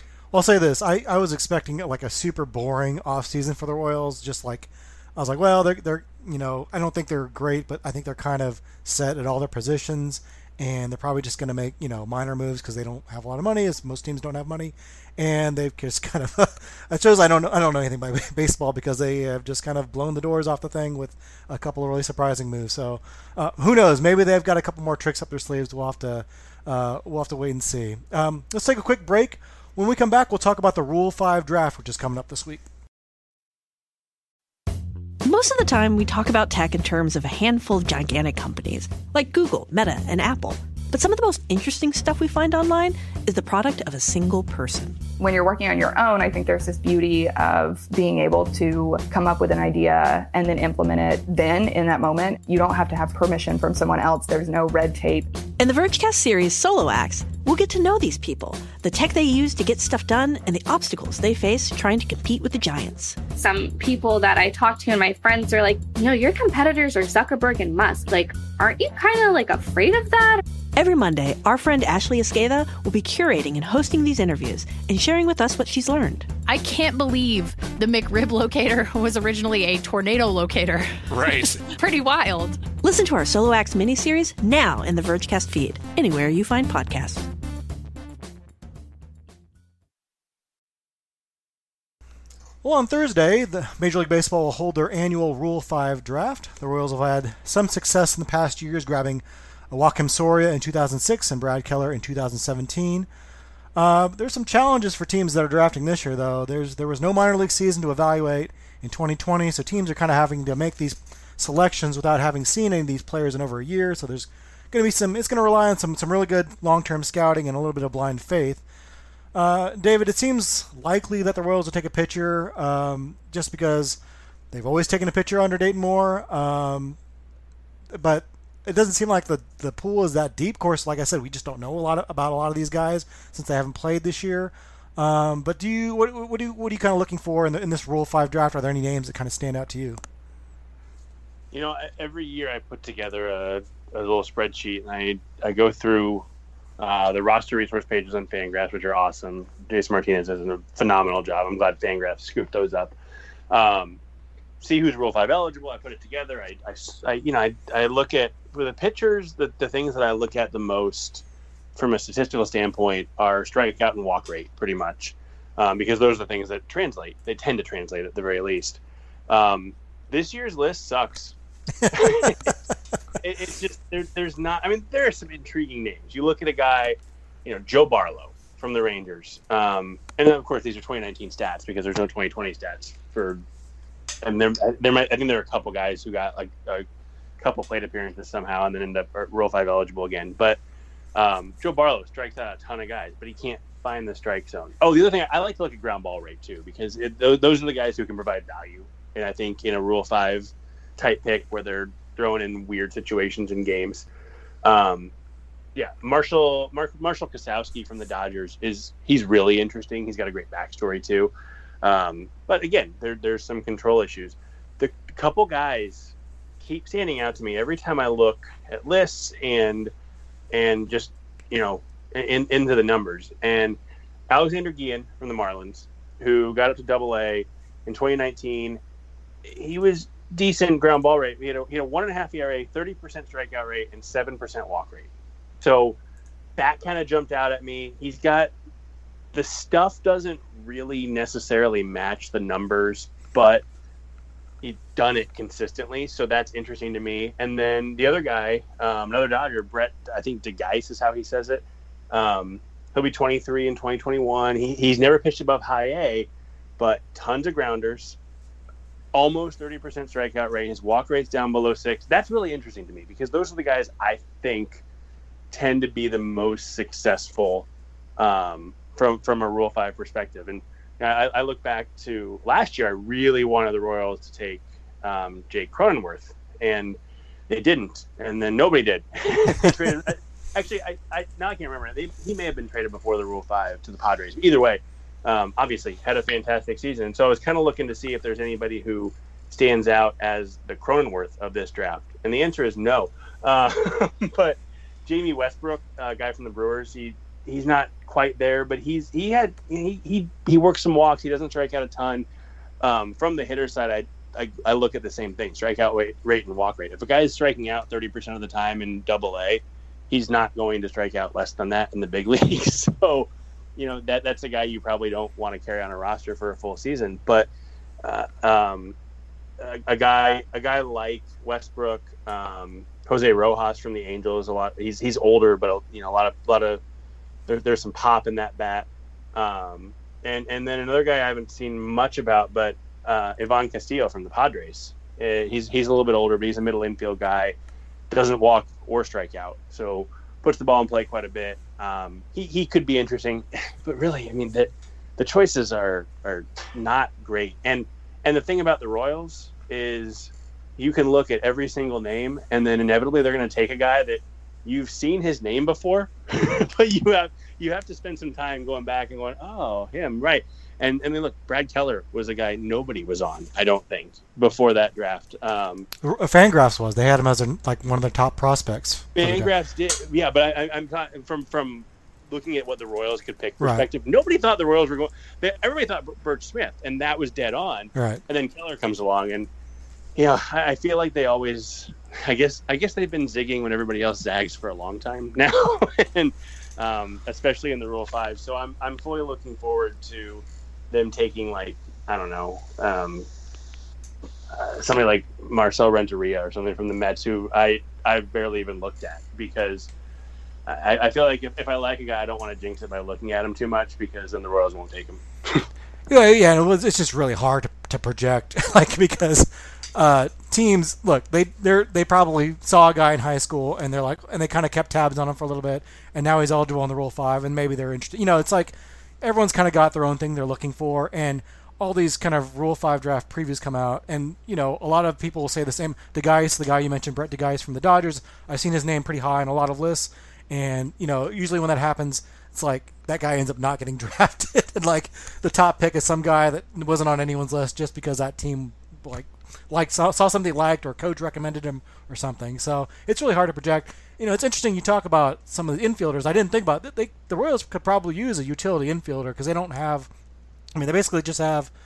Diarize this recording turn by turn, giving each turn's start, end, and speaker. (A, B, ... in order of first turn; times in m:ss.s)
0:00.3-0:32.6 A
0:35.2-0:45.0 B
0:45.2-0:55.3 C
0:55.6-1:03.2 B
1:03.3-1:10.4 D
1:10.8-1:16.3 B
1:16.4-1:22.6 E
1:21.1-1:21.6 F
1:22.8-1:27.2 B
1:32.6-1:43.1 A
1:43.8-1:58.6 A
1:59.3-2:04.0 A
2:04.5-2:07.0 A
2:07.9-2:20.0 A
2:21.5-2:26.2 F
2:26.8-2:32.9 F
2:33.5-2:34.0 F
2:34.6-2:41.2 F
2:41.8-2:51.4 F
2:51.8-2:52.5 A
2:51.9-2:52.5 F
2:53.2-3:03.4 F
3:04.2-3:06.8 F
3:07.4-3:10.6 F
3:11.1-3:24.1 F
3:24.6-3:25.1 F
3:25.7-3:39.9 F
3:40.5-3:43.8 F
3:44.3-3:48.8 F
3:49.4-3:55.1 F
3:55.6-3:56.0 F
3:56.6-3:58.5 F
3:59.3-4:03.6 F
4:04.6-4:16.3 F
4:16.8-4:18.2 F
4:19.1-4:24.8 F
4:25.5-4:37.0 F
4:37.5-5:02.2 F
5:02.8-5:17.5 F
5:18.0-5:19.0 F
5:19.6-5:26.8 F
5:27.5-5:37.5 F
5:38.1-6:05.9 F
6:06.0-6:09.5 A
6:09.2-6:19.5 F
6:13.6-6:13.8 A
6:17.9-6:18.2 A
6:20.2-6:33.2 F
6:34.5-6:39.9 F
6:40.7-6:45.6 F
6:46.1-7:30.1 A
7:30.8-7:31.7 A